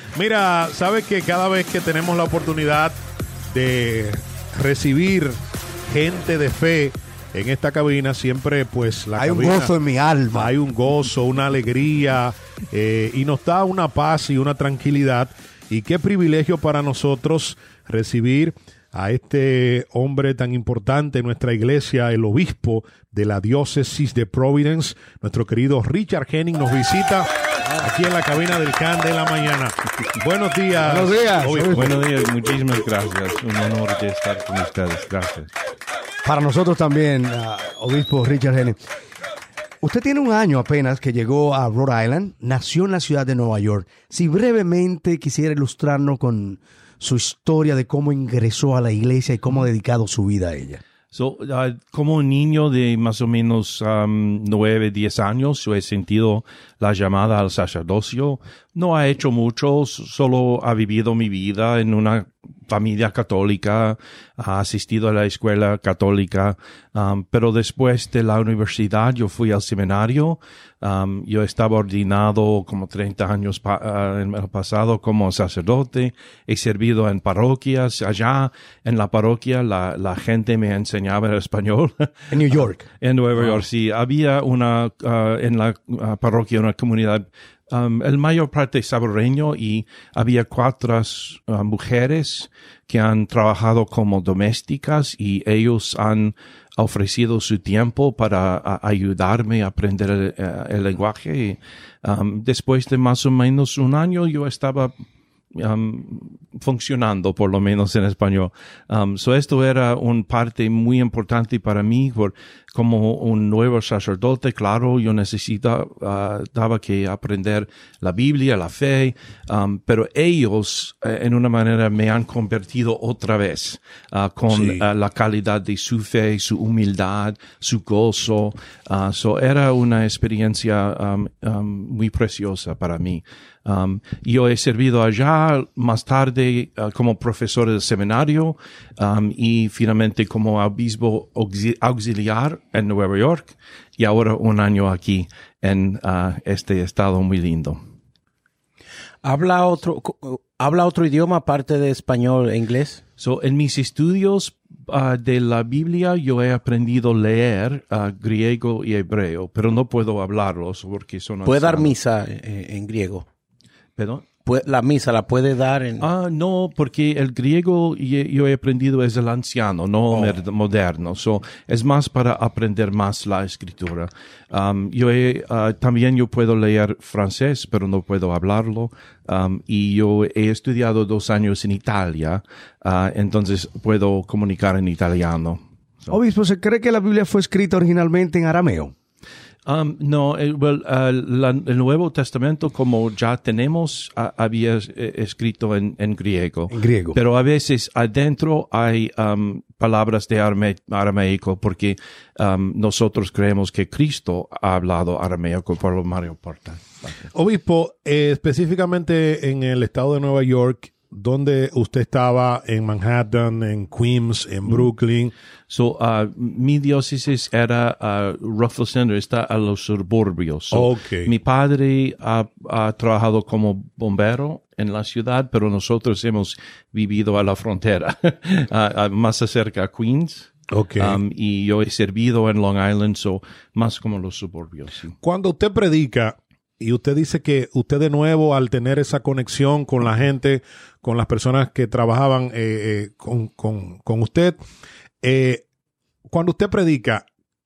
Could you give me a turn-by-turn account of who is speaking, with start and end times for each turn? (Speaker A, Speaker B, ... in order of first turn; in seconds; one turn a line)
Speaker A: 0.1-3.0
Speaker A: 3.5-5.3
Speaker A: 5.9-9.7
Speaker B: 9.2-10.5
Speaker A: 10.3-32.0
Speaker B: 30.8-32.0
Speaker C: 31.7-35.5
Speaker B: 36.2-38.8
Speaker B: 39.8-50.8
Speaker C: 51.1-104.9
Speaker B: 82.3-82.9
Speaker C: 105.5-147.8
Speaker A: 124.5-124.8
Speaker D: 149.2-153.0
Speaker C: 153.2-161.9
Speaker D: 161.4-163.2
Speaker C: 164.0-164.3
Speaker D: 164.4-166.1
Speaker C: 166.0-186.1
Speaker B: 186.1-188.9
Speaker C: 189.7-207.3
Speaker B: 196.7-197.2
Speaker A: 207.3-215.3
Speaker C: 215.7-235.1
Speaker A: 220.7-221.3
Speaker A: 230.7-231.2
Speaker A: 235.2-244.6
Speaker A: 245.2-245.6
Speaker A: 246.3-247.2